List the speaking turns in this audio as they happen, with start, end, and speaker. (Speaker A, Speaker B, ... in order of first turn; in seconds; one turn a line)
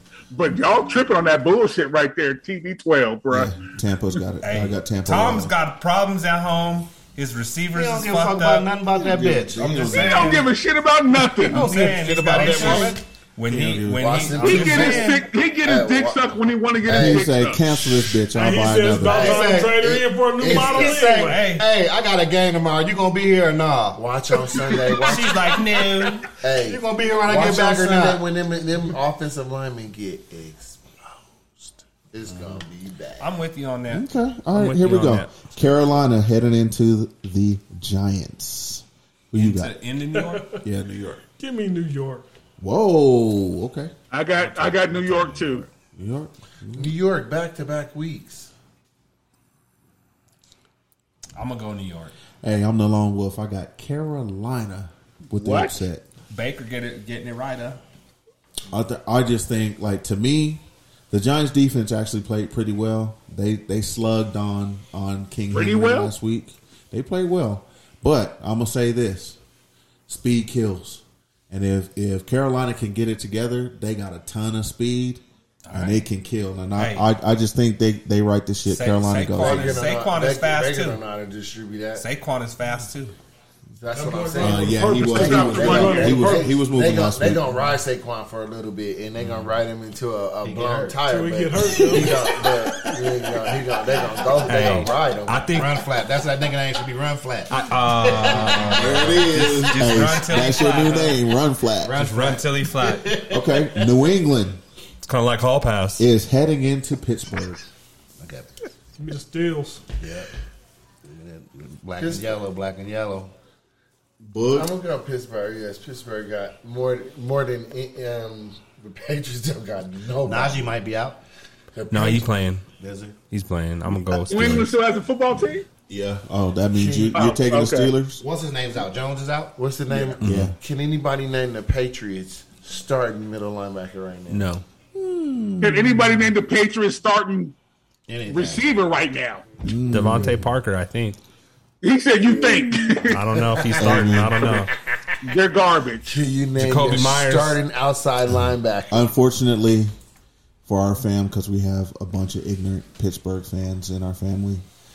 Speaker A: 0.3-3.6
Speaker B: 3.3-5.5
Speaker C: 4.4-8.7
Speaker D: 7.7-9.6
Speaker B: 8.9-10.5
Speaker C: 9.6-10.4
Speaker A: 9.9-11.7
Speaker D: 11.4-13.0
Speaker C: 11.4-15.2
Speaker B: 12.4-12.9
Speaker B: 13.5-14.3
Speaker E: 13.9-17.3
Speaker A: 14.4-18.2
Speaker B: 16.8-19.4
Speaker F: 18.3-21.5
Speaker E: 18.9-21.1
Speaker D: 19.1-19.8
Speaker D: 20.5-24.0
Speaker C: 21.2-21.7
Speaker E: 23.9-25.4
Speaker D: 24.5-28.2
Speaker C: 25.1-26.3
Speaker E: 26.4-33.4
Speaker C: 33.2-35.6
Speaker B: 33.9-39.8
Speaker C: 39.4-40.6
Speaker F: 40.1-40.6
Speaker B: 40.6-41.2
Speaker F: 41.4-42.3
Speaker B: 42.6-43.9
Speaker A: 44.1-45.7
Speaker D: 44.6-45.5
Speaker B: 46.0-46.9
Speaker E: 46.8-48.5
Speaker C: 51.4-52.1
Speaker B: 52.4-56.1
Speaker A: 55.4-55.7
Speaker C: 56.3-57.8
Speaker B: 58.7-69.4
Speaker A: 65.5-66.1
Speaker B: 70.1-79.8
Speaker C: 75.7-76.0
Speaker C: 76.8-77.1
Speaker C: 78.7-81.0
Speaker E: 79.3-82.1
Speaker C: 82.0-83.1
Speaker E: 83.8-95.7
Speaker F: 83.9-86.5
Speaker B: 84.4-87.5
Speaker A: 85.1-86.3
Speaker D: 90.4-91.0
Speaker F: 91.1-92.3
Speaker C: 94.5-95.8
Speaker D: 95.5-99.8
Speaker C: 97.5-101.2
Speaker B: 98.5-102.0
Speaker D: 101.8-104.0
Speaker C: 101.9-103.2
Speaker B: 103.3-104.6
Speaker C: 105.0-106.1
Speaker B: 106.0-107.6
Speaker D: 108.2-108.5
Speaker F: 109.0-109.8
Speaker D: 110.0-110.3
Speaker D: 111.0-113.3
Speaker E: 112.0-112.4
Speaker B: 114.3-114.7
Speaker E: 114.5-120.7
Speaker D: 120.2-121.2
Speaker E: 121.7-122.3
Speaker C: 121.9-122.6
Speaker D: 122.8-123.2
Speaker C: 123.3-124.7
Speaker A: 124.1-125.7
Speaker B: 124.3-124.7
Speaker B: 125.9-128.2
Speaker E: 126.7-127.3
Speaker A: 127.1-127.9
Speaker D: 128.2-129.6
Speaker E: 129.6-134.5
Speaker C: 130.2-130.5
Speaker B: 130.2-130.6
Speaker C: 134.3-134.6
Speaker B: 134.9-136.3
Speaker A: 135.6-137.6
Speaker D: 138.1-138.7
Speaker A: 138.3-139.4
Speaker B: 139.6-140.5
Speaker C: 139.9-141.2
Speaker A: 141.8-143.2
Speaker C: 143.1-144.7
Speaker E: 143.5-144.6
Speaker B: 143.8-144.5
Speaker A: 145.2-146.2
Speaker E: 146.1-149.0
Speaker C: 146.6-147.6
Speaker B: 148.9-149.9
Speaker B: 150.7-154.6